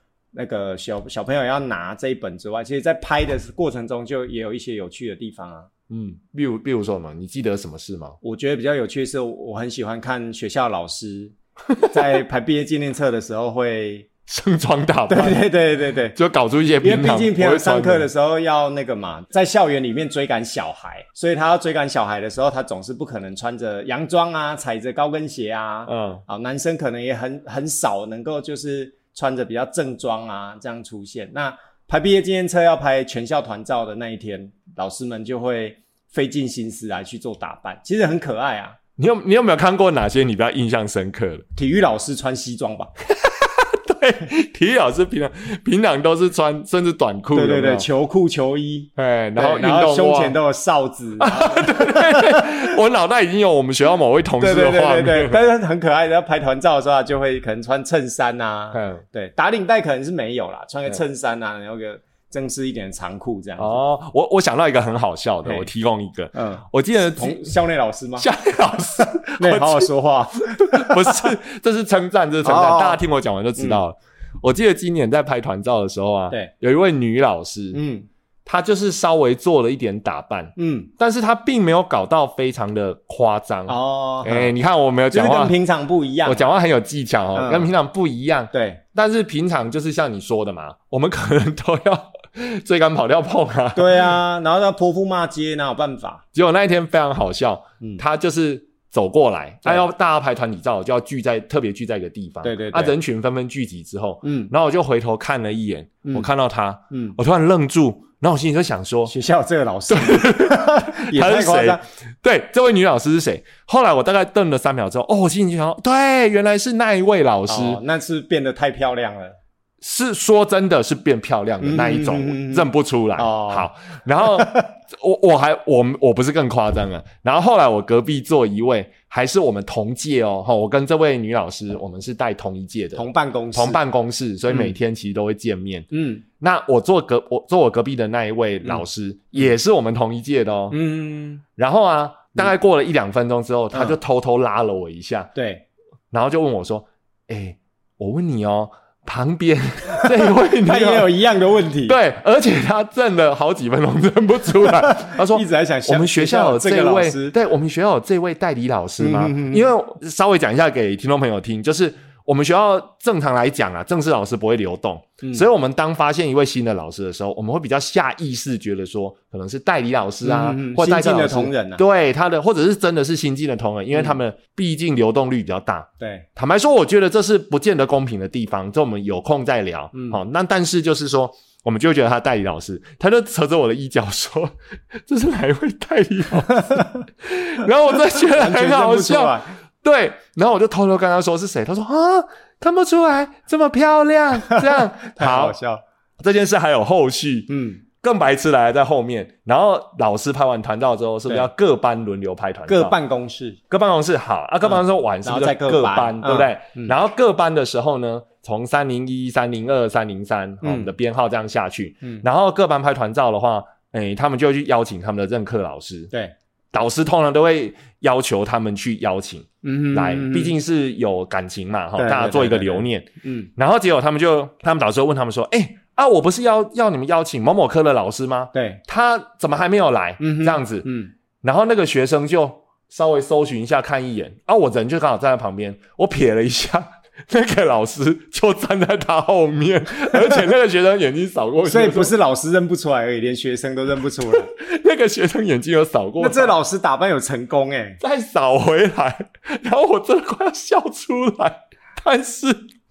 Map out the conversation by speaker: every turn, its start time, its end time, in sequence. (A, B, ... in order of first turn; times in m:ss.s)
0:00.3-0:05.7 A
0:05.9-0:08.2 B
0:08.2-0:14.1 A
0:14.3-0:15.4 B
0:15.1-0:16.2 A
0:16.1-0:18.1 B
0:16.8-0:38.8 A
0:25.9-0:26.2 B
0:39.0-0:41.4 B
0:41.5-0:42.9 A
0:43.1-0:47.9 B
0:47.3-0:52.7 A
0:49.0-0:50.4 B
0:51.2-0:55.4 B
0:54.4-1:03.8 A
0:58.7-0:59.0 B
1:03.6-1:07.5 B
1:06.3-1:08.3 A
1:08.2-1:09.9 B
1:09.4-1:11.3 A
1:10.4-1:17.8 B
1:12.4-1:13.0 A
1:17.7-1:18.1 A
1:18.4-1:25.5 B
1:20.6-1:20.9 A
1:23.7-1:24.5 A
1:25.1-1:26.6 A
1:26.2-1:34.1 B
1:27.3-1:27.7 A
1:28.5-1:28.8 A
1:33.7-1:36.2 A
1:36.3-1:49.1 B
1:42.4-1:42.9 A
1:44.2-1:44.5 A
1:46.9-1:47.2 A
1:49.1-1:51.8 A
1:49.9-1:57.8 B
1:57.5-1:59.4 A
1:59.8-2:20.8 B
2:01.6-2:03.7 A
2:04.2-2:04.7 A
2:12.9-2:13.8 A
2:14.5-2:14.7 A
2:15.9-2:16.2 A
2:20.7-2:21.4 A
2:21.6-2:25.3 B
2:25.3-2:25.6 A
2:26.1-2:31.1 B
2:30.0-2:32.0 A
2:31.9-3:15.6 B
2:34.6-2:37.3 A
2:39.0-2:39.7 A
2:45.2-2:45.5 A
2:50.2-2:51.8 A
2:56.0-2:56.2 A
2:59.9-3:00.2 A
3:06.6-3:07.0 A
3:08.2-3:09.5 A
3:14.5-3:15.8 A
3:16.2-3:22.9 B
3:17.5-3:17.8 A
3:22.7-3:23.6 A
3:23.7-3:36.1 B
3:24.6-3:26.9 A
3:30.6-3:30.9 A
3:36.7-3:50.9 B
3:39.6-3:40.5 A
3:42.0-3:43.5 A
3:48.5-3:48.8 A
3:50.2-3:51.1 A
3:51.4-4:02.1 B
4:00.1-4:00.4 A
4:01.6-4:04.5 A
4:04.4-4:06.5 B
4:06.2-4:08.0 A
4:08.0-4:12.6 B